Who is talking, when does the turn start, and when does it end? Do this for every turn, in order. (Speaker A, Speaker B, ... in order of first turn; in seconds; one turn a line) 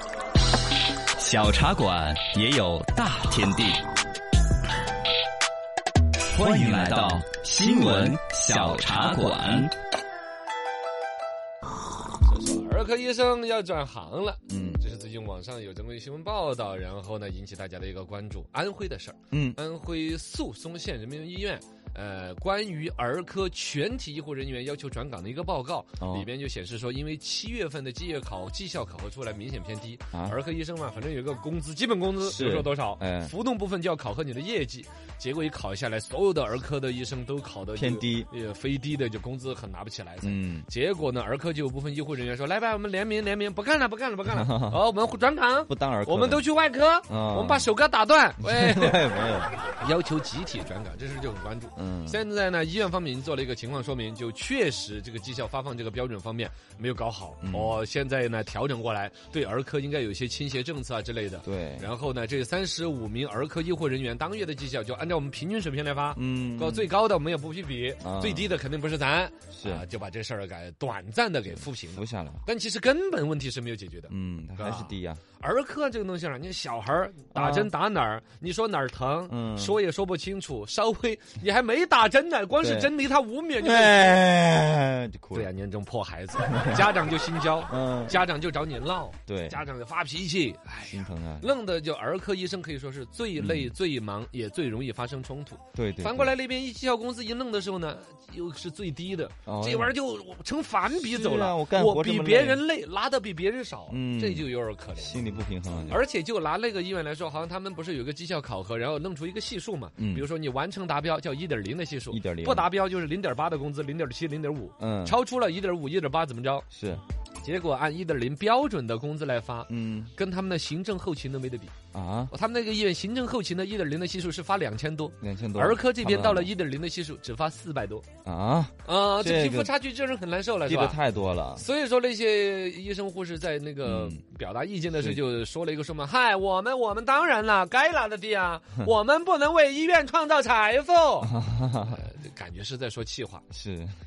Speaker A: 1.2-3.8
Speaker A: 6.3-9.7
Speaker B: 12.2-84.2
Speaker C: 14.5-14.8
Speaker C: 19.3-19.6
Speaker C: 26.0-26.3
Speaker C: 30.1-30.4
Speaker C: 32.2-33.3
Speaker C: 37.8-38.3
Speaker C: 40.2-40.7
Speaker C: 44.3-44.8
Speaker C: 45.7-46.5
Speaker C: 47.1-47.7
Speaker C: 48.4-49.5
Speaker C: 51.8-52.2
Speaker C: 57.4-57.9
Speaker C: 61.4-61.9
Speaker C: 66.2-66.9
Speaker C: 68.0-68.5
Speaker C: 69.5-69.9
Speaker C: 71.5-72.4
Speaker C: 74.1-75.2
Speaker C: 77.3-77.7
Speaker C: 79.3-79.8
Speaker C: 82.6-82.9
Speaker C: 83.6-85.5
Speaker B: 85.3-105.3
Speaker C: 86.4-86.9
Speaker C: 87.7-88.2
Speaker C: 89.3-89.7
Speaker C: 90.8-91.5
Speaker C: 93.4-93.7
Speaker C: 95.8-96.3
Speaker C: 99.5-100.0
Speaker C: 100.9-102.6
Speaker C: 103.9-106.0
Speaker B: 105.9-116.7
Speaker C: 110.0-110.3
Speaker C: 112.1-112.7
Speaker C: 114.8-115.2
Speaker C: 116.7-117.0
Speaker B: 117.4-121.7
Speaker C: 119.7-120.1
Speaker C: 121.9-122.3
Speaker B: 122.3-128.1
Speaker C: 125.2-126.5
Speaker C: 128.2-129.7
Speaker B: 128.8-131.0
Speaker C: 130.7-131.7
Speaker B: 131.6-143.4
Speaker C: 133.8-134.2
Speaker C: 134.9-135.2
Speaker C: 141.2-142.1
Speaker C: 143.5-143.9